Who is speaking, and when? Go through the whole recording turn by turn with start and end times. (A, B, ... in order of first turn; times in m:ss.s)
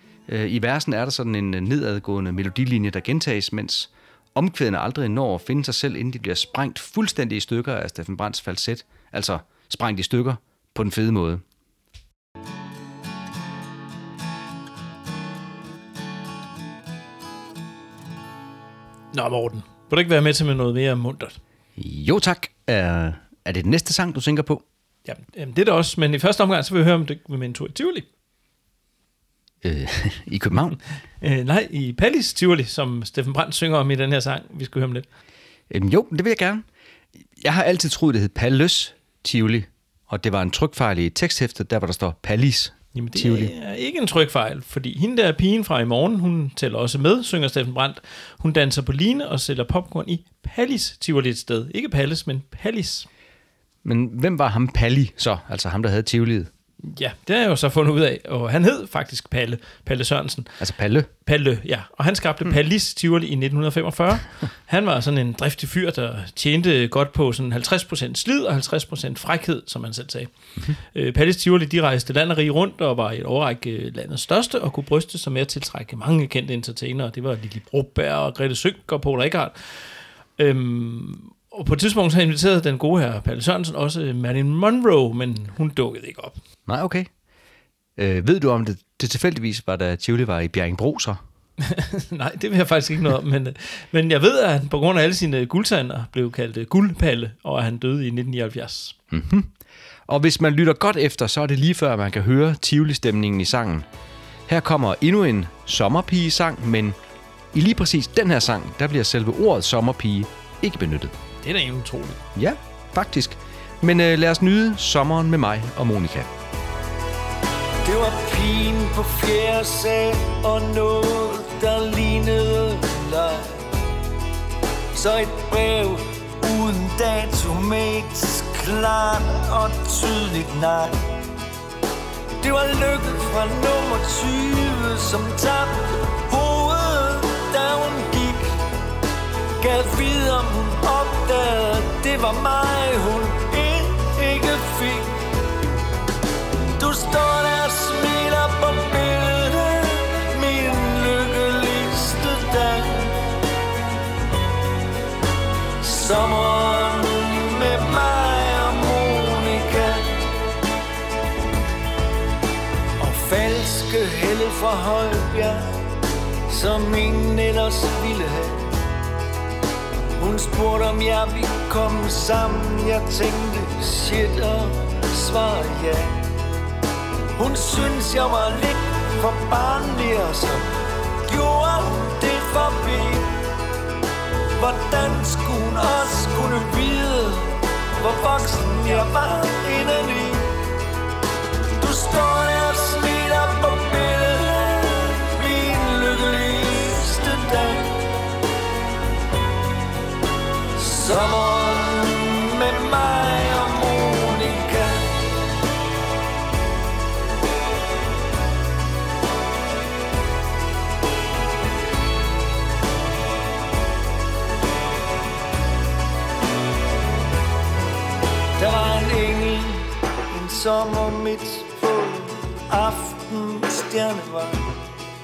0:00.3-0:11.4 A
0:19.1-0:21.4 B
0:21.8-0:24.6 A
0:25.1-0:28.1 B
0:29.6-0:30.8 A
0:31.2-0:35.1 B
0:35.7-0:36.7 A
0:37.4-0:43.5 A
0:42.9-0:53.1 B
0:53.8-0:56.5 A
0:56.8-1:00.6 B
1:00.6-1:01.1 A
1:01.2-1:10.3 B
1:10.9-1:26.4 B
1:26.7-1:27.1 A
1:28.0-1:31.2 A
1:31.6-1:39.0 B
1:39.1-1:39.5 A
1:40.1-1:43.9 A
1:44.5-1:47.0 A
1:47.5-1:51.1 A
1:51.4-1:52.2 B
1:52.4-1:56.3 A
1:57.8-2:03.6 C
2:05.0-2:11.0 C
2:12.4-2:18.6 C
2:19.6-2:25.2 C
2:26.8-2:33.2 C
2:35.8-2:40.3 C
2:43.0-2:45.9 C
2:46.5-2:48.7 C
2:50.2-2:56.2 C
2:57.4-3:00.6 C
3:01.3-3:03.4 C
3:04.6-3:10.5 C
3:11.8-3:18.1 C
3:20.8-3:25.1 C
3:38.6-3:44.7 C